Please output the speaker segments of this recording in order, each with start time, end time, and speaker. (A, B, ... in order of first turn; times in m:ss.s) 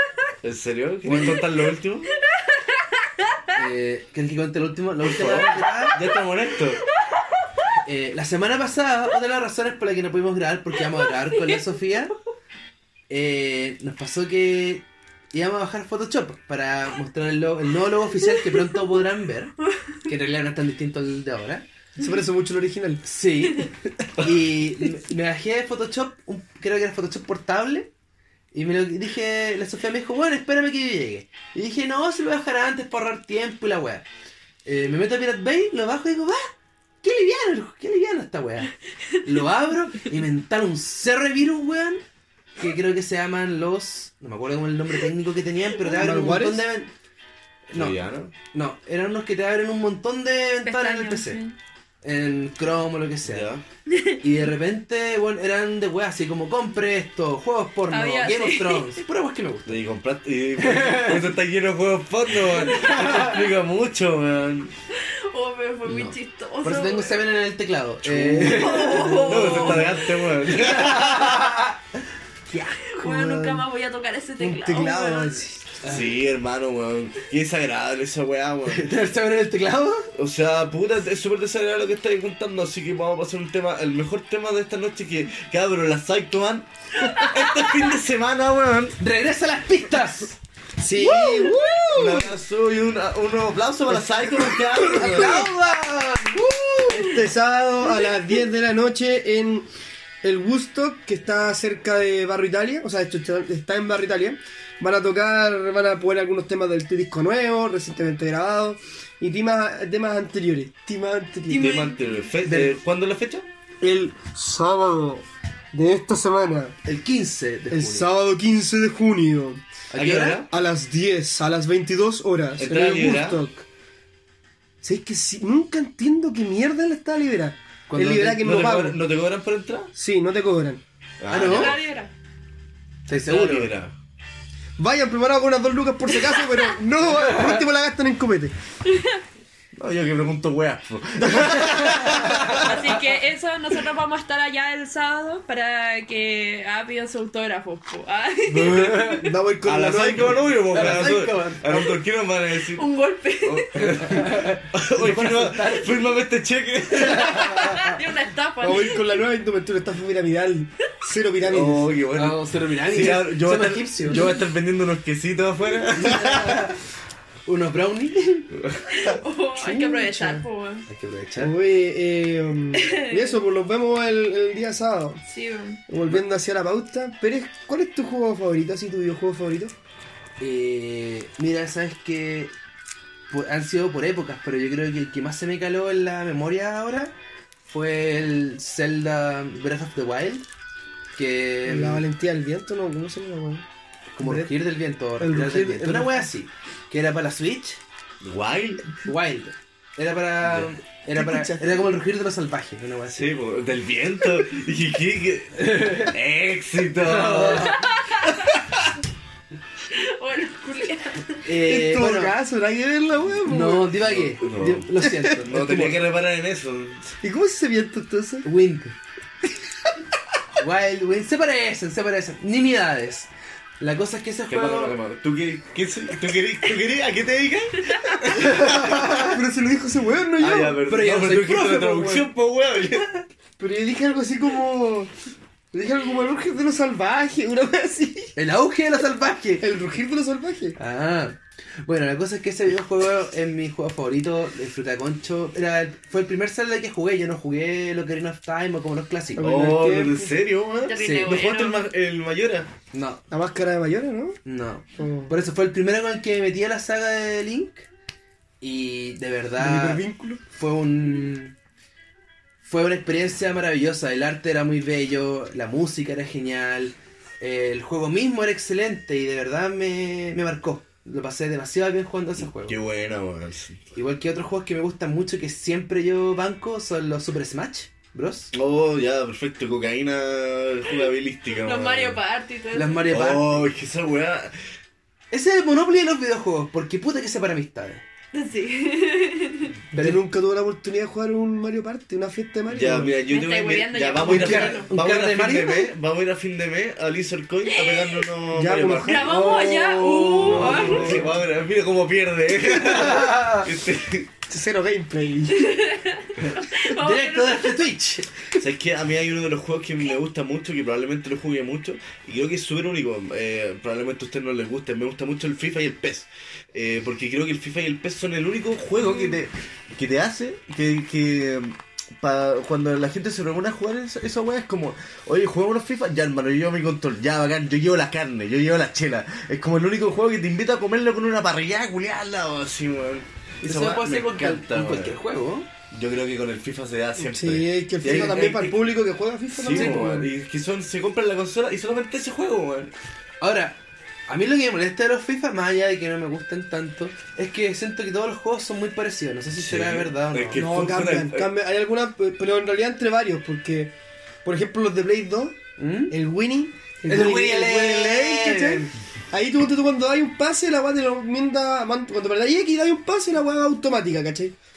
0:00.4-0:02.1 A
0:01.0-0:01.4 B
0:01.2-0:01.5 C
0:02.3-0:03.4 C
0:03.5-0:06.0 B
0:05.0-0:06.8 A
0:05.9-0:06.2 C
0:07.8-0:12.1 B
0:10.8-0:11.9 C
0:13.1-0:19.5 B
0:19.6-0:19.9 C
0:20.0-0:21.6 B
0:22.0-0:23.0 D
0:23.0-0:27.9 B
0:28.5-0:34.0 B
0:34.6-0:36.5 B
0:37.0-0:38.7 B
0:39.2-0:42.0 B
0:42.6-0:46.9 B
0:46.0-0:46.6 D
0:47.7-0:51.4 B
0:47.7-0:48.3 A
0:50.6-0:51.6 C
0:52.0-0:53.5 B
0:53.2-0:53.6 A
0:53.9-0:54.2 C
0:54.2-0:59.8 B
0:57.9-0:59.0 C
0:59.6-1:04.7 A
1:00.6-1:01.3 B
1:02.7-1:03.4 C
1:04.9-1:07.3 C
1:05.8-1:11.8 B
1:08.0-1:11.5 A
1:08.6-1:10.1 C
1:12.5-1:13.6 D
1:12.8-1:15.5 C
1:14.4-1:15.8 D
1:15.8-1:16.1 B
1:15.8-1:18.9 A
1:18.7-1:20.1 B
1:20.1-1:29.0 A
1:27.0-1:27.9 C
1:29.0-1:30.4 B
1:30.8-1:32.3 D
1:31.2-1:31.5 C
1:31.9-1:35.5 A
1:34.5-1:37.1 B
1:35.0-1:35.4 D
1:36.9-1:39.7 D
1:40.2-1:51.8 D
1:51.5-1:52.2 C
1:51.5-1:53.5 A
1:52.4-1:52.8 B
1:53.8-1:56.8 D
1:56.8-1:58.1 B
1:57.7-1:59.6 D
1:59.9-2:00.4 B
2:00.0-2:00.5 A
2:00.5-2:03.6 D
2:02.6-2:03.4 A
2:04.8-2:09.0 D
2:07.9-2:08.7 B
2:08.4-2:09.9 A
2:09.9-2:10.8 D
2:11.2-2:11.8 A
2:11.3-2:11.7 B
2:11.4-2:12.1 C
2:13.1-2:13.7 B
2:13.1-2:13.9 A
2:14.8-2:18.5 D
2:16.2-2:16.6 C
2:18.8-2:19.2 C
2:19.8-2:22.8 A
2:21.8-2:22.7 B
2:22.2-2:29.3 C
2:28.5-2:29.2 B
2:29.2-2:31.0 D
2:29.6-2:32.8 A
2:30.7-2:31.9 B
2:32.5-2:34.0 C
2:33.4-2:37.8 A
2:33.8-2:36.0 B
2:36.9-2:38.0 B
2:37.2-2:39.1 C
2:38.6-2:41.9 D
2:41.4-2:46.7 A
2:42.1-2:44.2 B
2:46.0-2:46.8 B
2:47.4-2:48.5 B
2:48.5-2:49.2 A
2:48.9-2:50.9 C
2:49.6-2:50.4 D
2:50.9-2:51.5 B
2:51.4-2:55.2 D
2:52.7-2:53.4 C
2:55.3-2:55.8 C
2:55.9-2:59.7 D
3:00.4-3:02.5 B
3:03.3-3:10.4 B
3:11.2-3:12.0 B
3:11.6-3:13.6 D
3:14.1-3:17.8 B
3:14.2-3:14.5 D
3:15.2-3:16.3 D
3:18.2-3:19.0 A
3:19.0-3:23.3 B
3:21.1-3:21.8 D
3:23.1-3:27.8 A
3:25.6-3:26.1 B
3:27.0-3:27.9 B
3:27.6-3:28.6 C
3:29.9-3:31.5 C
3:31.4-3:32.3 B
3:31.6-3:33.9 D
3:33.5-3:36.0 B
3:34.0-3:37.2 A
3:35.0-3:35.4 D
3:37.2-3:38.4 D
3:38.4-3:39.0 B
3:40.6-3:43.3 B
3:43.8-3:45.0 B
3:44.5-3:49.4 A
3:47.9-3:48.2 C
3:48.3-3:50.8 D
3:48.5-3:48.9 B
3:50.4-3:53.2 A
3:50.9-3:52.2 B
3:51.8-3:52.3 D
3:53.6-3:55.1 D
3:55.7-3:58.3 D
3:58.4-3:59.7 B
3:59.6-4:00.8 D
4:00.8-4:09.5 B
4:09.3-4:10.4 D
4:09.4-4:12.7 A
4:10.8-4:11.9 C
4:11.0-4:11.4 B
4:12.9-4:13.2 B
4:13.3-4:14.4 D
4:14.4-4:17.9 B
4:14.9-4:15.3 D
4:18.6-4:21.5 B
4:19.6-4:20.4 D
4:22.6-4:32.8 B
4:32.6-4:33.8 A
4:33.9-4:38.5 B
4:38.5-4:42.2 A
4:40.9-4:43.0 C
4:42.7-4:43.7 B
4:43.1-4:44.5 A
4:45.3-4:48.0 B
4:48.3-4:49.8 C
4:49.9-4:50.2 B
4:49.9-4:53.2 D
4:52.7-4:59.4 A
4:53.3-4:54.9 C
4:54.2-4:55.9 B
4:57.6-4:58.3 C
4:58.5-5:01.2 D
4:58.9-5:01.2 C
5:00.3-5:04.3 A
5:02.7-5:03.7 B
5:04.5-5:05.7 D
5:05.5-5:07.9 C
5:06.4-5:08.6 B
5:08.6-5:35.2 A
5:19.0-5:19.4 C
5:33.6-5:35.7 B
5:35.9-5:38.8 A
5:37.2-5:40.3 D
5:39.5-5:42.9 A
5:39.7-5:40.1 B
5:43.4-5:50.6 B
5:49.6-5:51.5 A
5:50.5-5:55.6 D
5:55.8-5:56.1 B
5:56.1-6:04.5 D
5:57.1-5:58.9 B